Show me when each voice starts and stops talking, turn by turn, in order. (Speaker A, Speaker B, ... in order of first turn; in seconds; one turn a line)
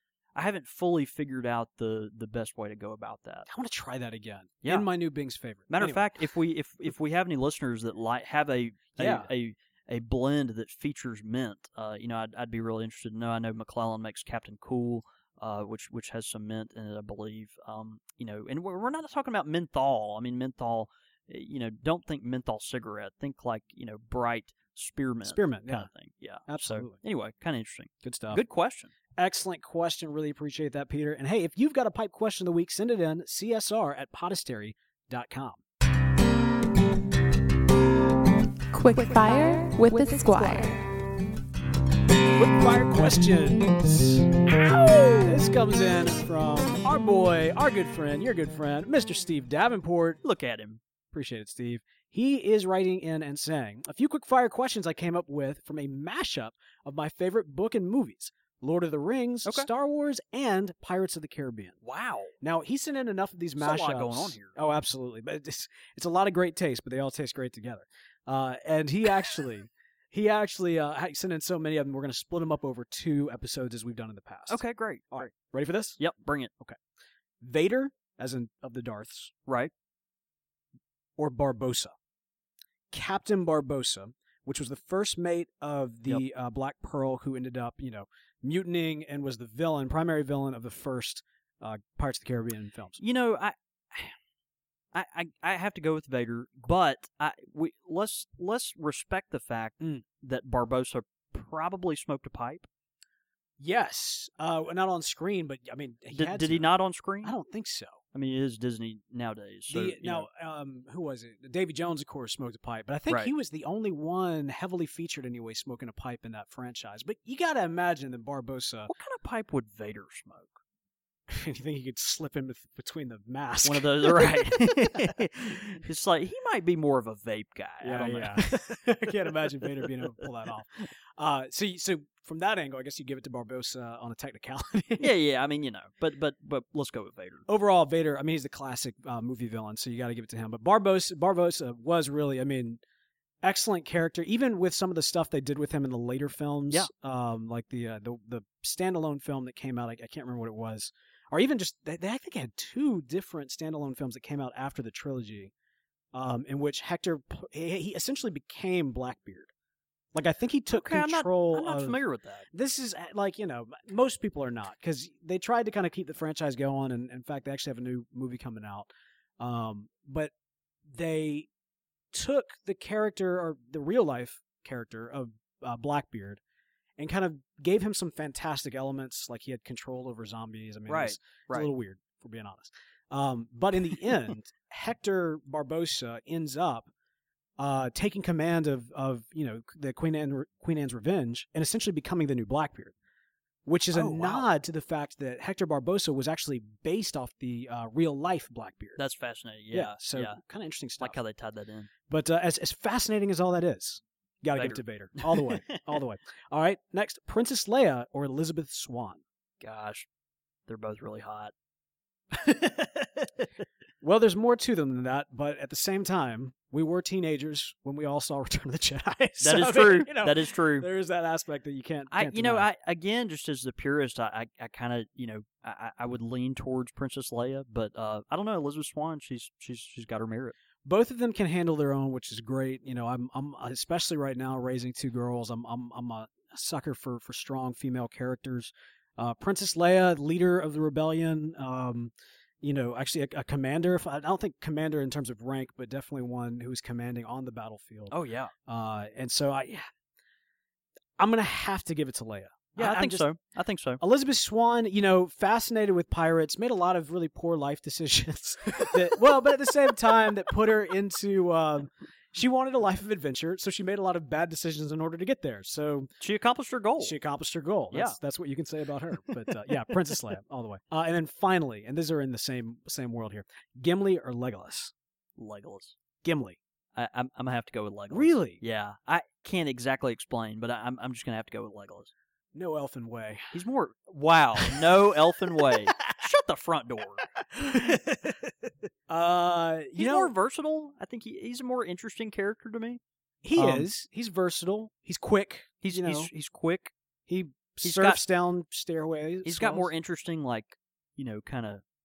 Speaker A: 0.3-3.5
Speaker B: 3.5-6.1
Speaker A: 5.7-28.9
Speaker B: 9.0-9.3
Speaker B: 25.2-25.9
Speaker B: 26.5-27.0
Speaker B: 28.0-28.4
Speaker B: 29.1-35.6
Speaker C: 38.7-40.8
Speaker B: 42.4-44.4
Speaker B: 45.0-50.2
Speaker A: 50.2-50.8
Speaker B: 51.1-61.8
Speaker A: 61.8-62.3
Speaker B: 62.4-76.0
Speaker A: 63.6-64.5
Speaker A: 74.5-75.3
Speaker A: 76.0-76.5
Speaker B: 77.4-79.3
Speaker B: 81.2-81.9
Speaker B: 82.9-93.0
Speaker A: 93.0-94.2
Speaker A: 94.9-102.7
Speaker B: 103.6-106.7
Speaker A: 106.1-107.3
Speaker B: 107.2-108.0
Speaker A: 108.1-110.3
Speaker B: 109.7-118.9
Speaker A: 118.9-120.5
Speaker B: 121.3-125.1
Speaker A: 123.6-128.6
Speaker B: 127.8-135.1
Speaker A: 135.0-137.5
Speaker B: 137.5-142.8
Speaker B: 143.4-155.5
Speaker B: 156.1-159.5
Speaker B: 160.1-162.0
Speaker A: 160.7-162.5
Speaker B: 162.5-168.9
Speaker B: 169.4-170.3
Speaker B: 170.9-171.5
Speaker B: 172.1-176.4
Speaker B: 177.0-186.9
Speaker A: 180.9-181.7
Speaker B: 187.6-192.9
Speaker B: 193.7-199.0
Speaker A: 193.9-194.5
Speaker A: 199.0-200.4
Speaker B: 199.7-201.2
Speaker A: 201.0-201.9
Speaker B: 202.1-209.2
Speaker A: 204.5-205.8
Speaker A: 209.6-210.1
Speaker A: 210.7-211.5
Speaker A: 212.3-213.4
Speaker B: 214.0-222.7
Speaker A: 219.4-220.9
Speaker A: 222.1-230.6
Speaker B: 230.8-249.9
Speaker A: 248.1-248.5
Speaker B: 251.2-253.3
Speaker A: 252.8-254.0
Speaker B: 254.0-266.1
Speaker A: 266.2-267.1
Speaker B: 267.0-274.9
Speaker A: 267.9-268.2
Speaker A: 275.4-275.9
Speaker B: 276.2-276.6
Speaker A: 276.9-282.1
Speaker B: 278.1-278.6
Speaker B: 282.5-283.6
Speaker A: 283.5-287.9
Speaker B: 287.6-288.3
Speaker B: 289.1-290.3
Speaker A: 289.9-293.0
Speaker B: 293.4-296.3
Speaker A: 293.6-293.9
Speaker A: 295.8-296.9
Speaker B: 297.3-299.9
Speaker A: 297.8-298.2
Speaker A: 299.4-301.8